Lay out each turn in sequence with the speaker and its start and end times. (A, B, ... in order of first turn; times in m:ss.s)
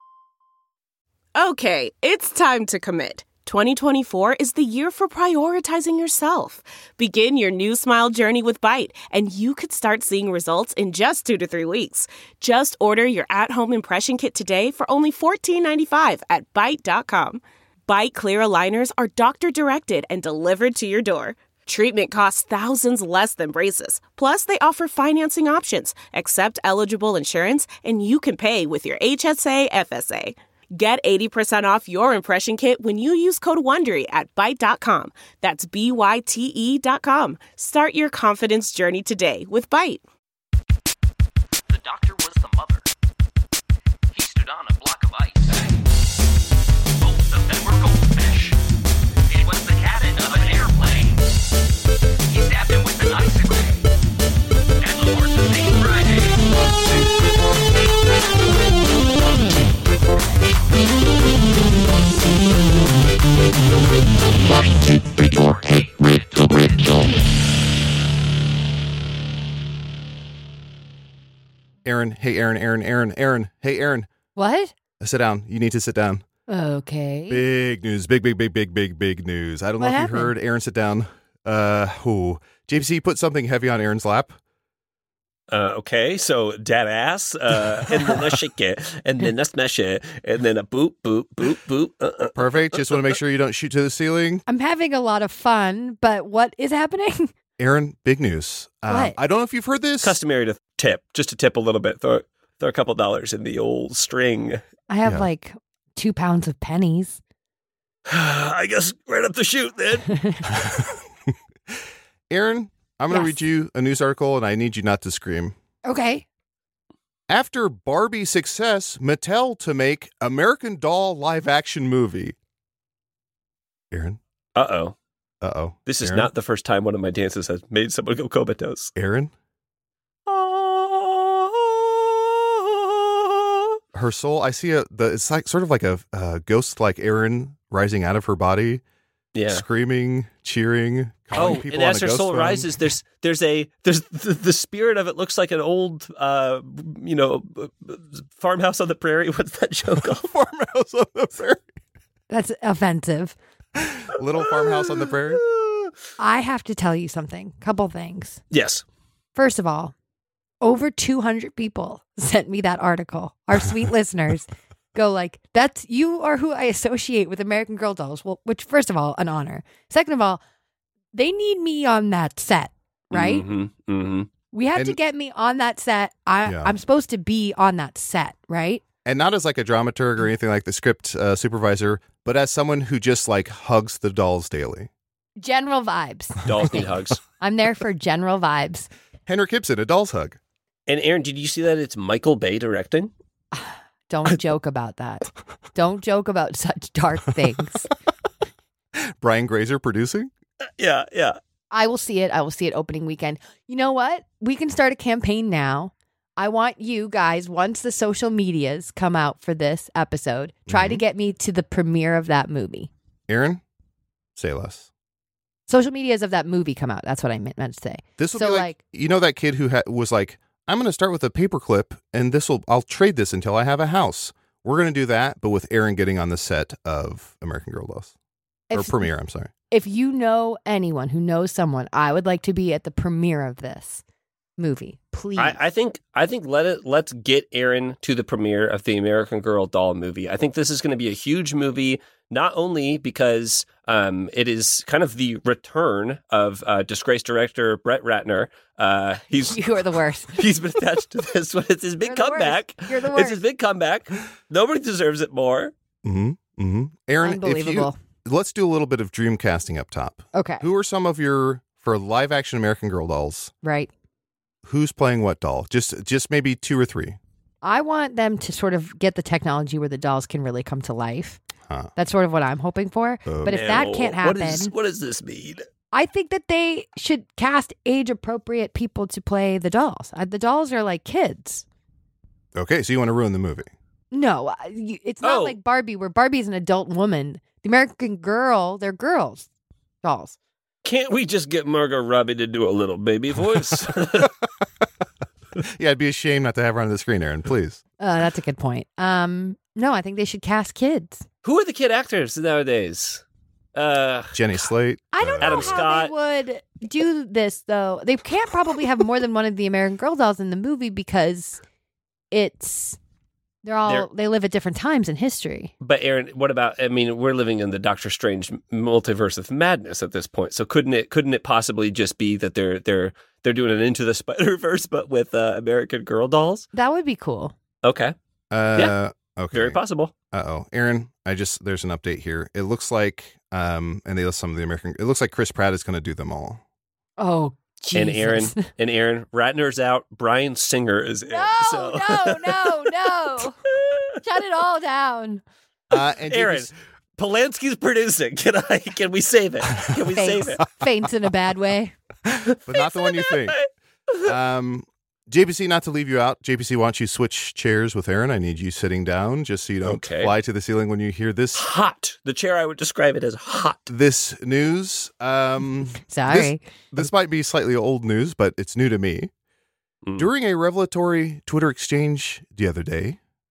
0:01.4-0:40.0 A
0:41.7-0:42.8 B
0:44.1-0:45.6 B
0:47.0-0:48.3 B
0:49.3-0:51.2 B
0:52.3-0:53.7 B
0:54.8-0:56.2 B
1:11.8-1:14.1 C
1:14.4-1:14.7 D
1:15.0-1:16.2 C
1:16.5-1:17.4 D
1:17.3-1:24.4 C
1:19.8-1:20.3 D
1:25.5-1:33.0 E
1:32.4-1:34.4 C
1:34.5-1:37.3 D
1:37.6-1:40.2 C
1:38.9-1:39.2 D
1:40.0-1:44.6 E
1:44.9-1:47.2 D
1:48.1-1:50.1 E
1:50.1-1:50.5 D
1:50.5-1:51.0 C
1:52.3-1:55.6 C
1:53.1-1:53.4 D
1:55.8-1:56.3 D
1:57.3-2:02.4 C
2:03.9-2:04.2 C
2:04.6-2:05.0 E
2:05.4-2:06.3 C
2:05.9-2:08.9 E
2:09.0-2:09.3 C
2:10.3-2:13.6 E
2:13.9-2:18.8 C
2:19.3-2:19.6 E
2:19.5-2:22.8 C
2:21.3-2:30.3 E
2:30.0-2:31.7 C
2:32.3-2:33.4 D
2:33.9-2:35.4 C
2:34.4-2:35.9 E
2:36.2-2:38.4 D
2:38.5-2:38.8 E
2:39.4-2:39.9 D
2:40.6-2:50.4 D
2:51.1-2:53.4 D
2:53.1-2:54.3 E
2:54.5-2:58.8 D
2:56.4-2:56.7 C
2:59.0-3:04.9 C
3:05.4-3:08.9 D
3:06.5-3:07.2 E
3:09.3-3:10.4 C
3:10.9-3:13.1 E
3:13.5-3:17.9 D
3:19.2-3:20.3 C
3:20.6-3:21.4 E
3:21.7-3:32.9 D
3:30.7-3:31.0 C
3:33.3-3:33.6 C
3:34.4-3:34.9 C
3:35.7-3:38.8 D
3:38.2-3:48.1 C
3:48.7-3:49.1 D
3:48.7-3:49.5 C
3:49.7-3:54.0 D
3:54.6-3:55.6 D
3:55.4-4:09.6 E
4:09.3-4:10.4 D
4:10.3-4:15.7 E
4:12.0-4:13.4 D
4:16.0-4:23.5 C
4:17.2-4:18.0 D
4:20.3-4:20.7 D
4:23.6-4:23.9 D
4:24.6-4:27.2 C
4:27.6-4:31.4 D
4:32.0-4:34.7 D
4:33.3-4:33.7 C
4:33.5-4:35.7 E
4:35.9-4:41.6 D
4:42.6-4:43.7 C
4:44.1-4:49.5 D
4:45.2-4:45.6 E
4:50.0-4:50.4 D
4:50.8-4:54.3 E
4:55.6-4:57.8 C
4:58.0-5:01.3 D
5:01.4-5:03.2 E
5:03.8-5:04.4 E
5:04.3-5:05.8 C
5:05.1-5:11.6 D
5:05.4-5:06.1 E
5:12.3-5:13.0 D
5:13.6-5:15.7 D
5:15.8-5:26.7 E
5:26.7-5:27.6 D
5:27.8-5:28.2 E
5:28.5-5:29.8 C
5:29.5-5:30.1 E
5:30.3-5:36.6 C
5:37.2-5:38.7 D
5:37.9-5:42.9 E
5:41.3-5:43.6 D
5:43.7-5:44.1 E
5:44.2-5:45.4 D
5:45.9-5:46.7 C
5:46.3-5:50.6 E
5:50.1-5:52.0 D
5:52.5-5:53.6 C
5:52.7-5:54.4 E
5:54.2-6:01.6 C
5:59.8-6:00.3 E
6:01.5-6:03.9 E
6:03.9-6:09.3 C
6:06.0-6:06.6 D
6:10.0-6:10.3 E
6:10.2-6:13.2 C